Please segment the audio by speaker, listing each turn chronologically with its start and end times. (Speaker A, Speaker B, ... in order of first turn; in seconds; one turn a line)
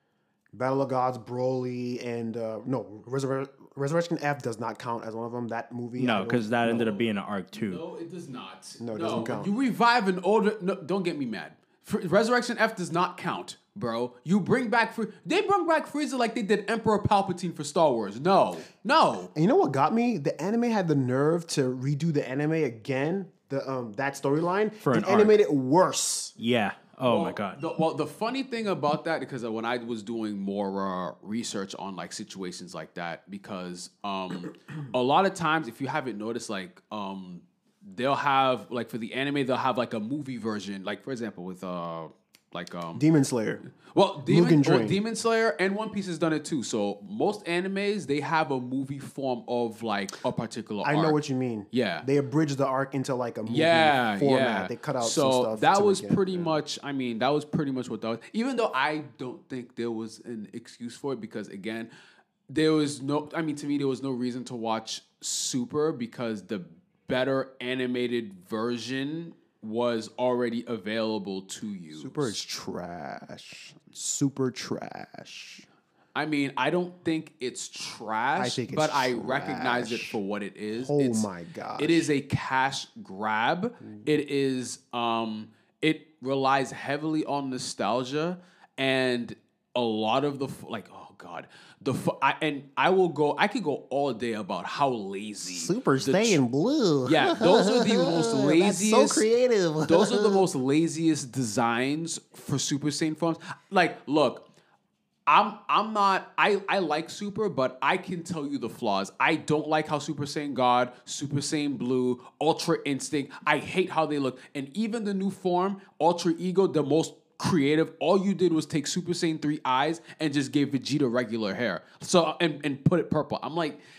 Speaker A: 0.5-7.0
Speaker B: 6.0-7.8
Speaker C: 7.7-19.3
Speaker A: 8.8-9.5
Speaker A: 19.3-26.3
Speaker B: 24.8-25.4
Speaker B: 26.4-27.6
Speaker C: 27.0-43.0
Speaker A: 42.9-43.6
Speaker C: 43.8-51.2
Speaker A: 44.3-45.0
Speaker A: 50.8-56.6
Speaker C: 51.7-52.1
Speaker C: 53.5-61.9
Speaker C: 62.5-72.3
Speaker A: 71.9-75.7
Speaker C: 76.1-96.4
Speaker A: 78.3-80.2
Speaker A: 80.7-82.1
Speaker A: 95.4-100.5
Speaker C: 97.0-99.3
Speaker C: 99.8-104.4
Speaker C: 105.3-123.8